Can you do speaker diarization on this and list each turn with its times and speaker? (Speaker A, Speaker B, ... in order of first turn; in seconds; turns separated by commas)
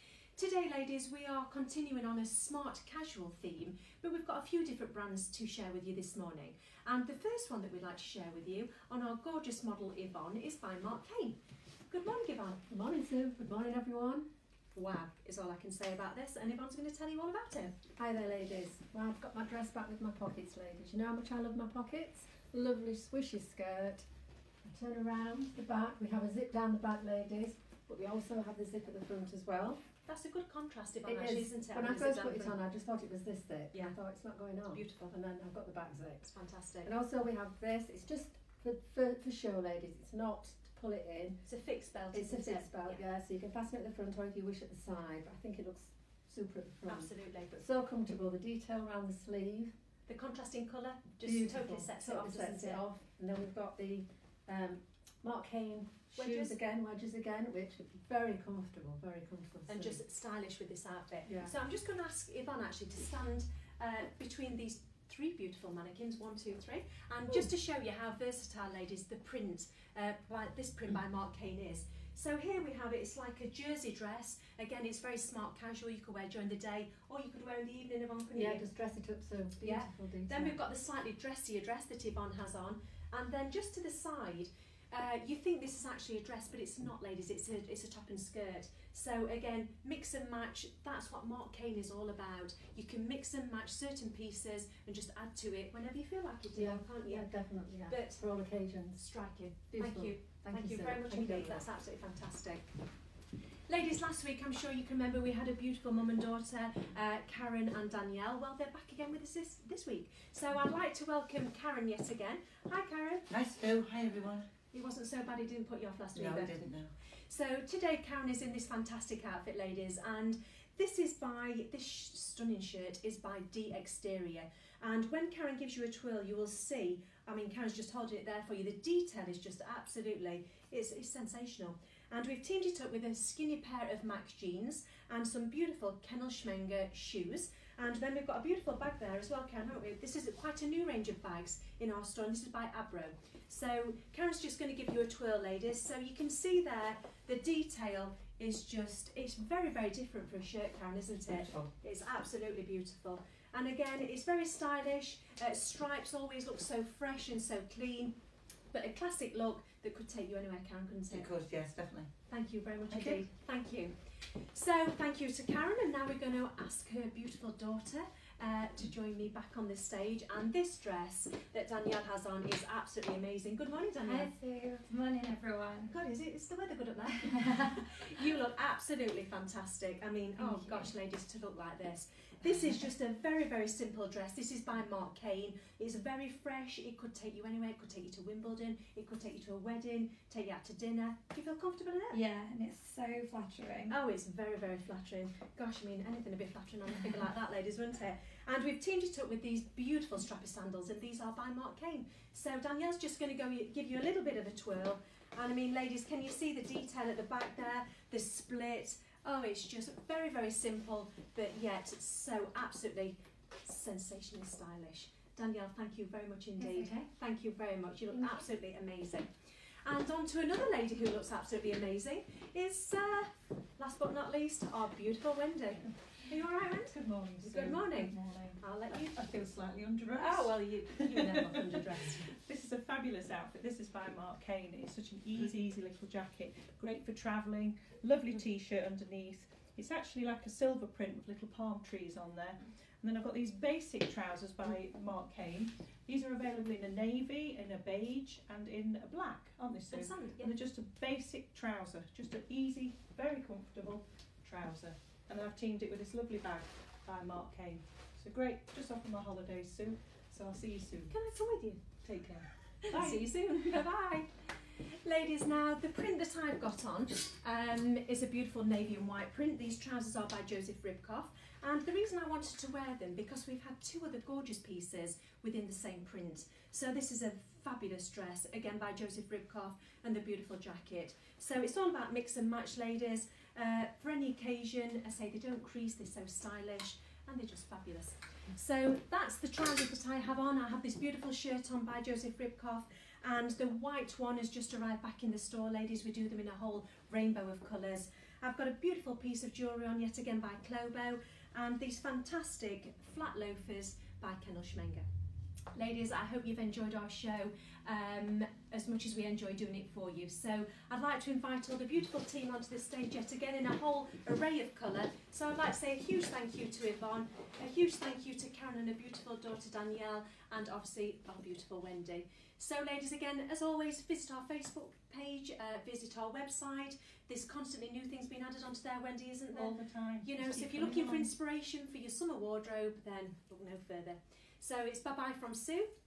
Speaker A: 0.4-12.6, Speaker B: 12.7-14.3, Speaker A: 14.7-17.8, Speaker B: 18.0-24.1, Speaker B: 24.6-29.8, Speaker A: 30.1-32.5, Speaker B: 31.1-36.3, Speaker A: 34.7-35.1, Speaker A: 36.2-36.9, Speaker B: 36.8-41.4, Speaker A: 41.5-43.0, Speaker B: 42.1-49.7, Speaker A: 46.9-47.6, Speaker A: 50.1-52.8, Speaker B: 51.2-60.0, Speaker A: 56.1-56.5, Speaker A: 59.7-78.6, Speaker B: 61.3-61.5, Speaker B: 78.3-80.6, Speaker A: 79.6-97.3, Speaker B: 96.5-99.0, Speaker A: 97.8-98.2, Speaker A: 99.0-102.7, Speaker B: 99.7-101.6, Speaker A: 103.7-113.3, Speaker C: 113.3-114.5, Speaker A: 114.7-158.2, Speaker C: 116.2-116.9, Speaker A: 158.7-161.3, Speaker C: 161.1-162.0, Speaker D: 161.3-162.1, Speaker A: 162.3-174.3, Speaker D: 162.9-163.2, Speaker E: 174.0-175.9, Speaker A: 175.9-192.2, Speaker E: 177.3-177.6, Speaker E: 180.4-180.9, Speaker E: 192.1-194.0, Speaker A: 193.9-219.3, Speaker E: 216.6-217.1, Speaker A: 219.8-229.2, Speaker D: 226.9-261.1, Speaker A: 230.1-232.3, Speaker A: 249.9-250.5, Speaker A: 261.1-305.1, Speaker D: 262.1-263.7, Speaker A: 305.7-335.9, Speaker D: 329.5-331.3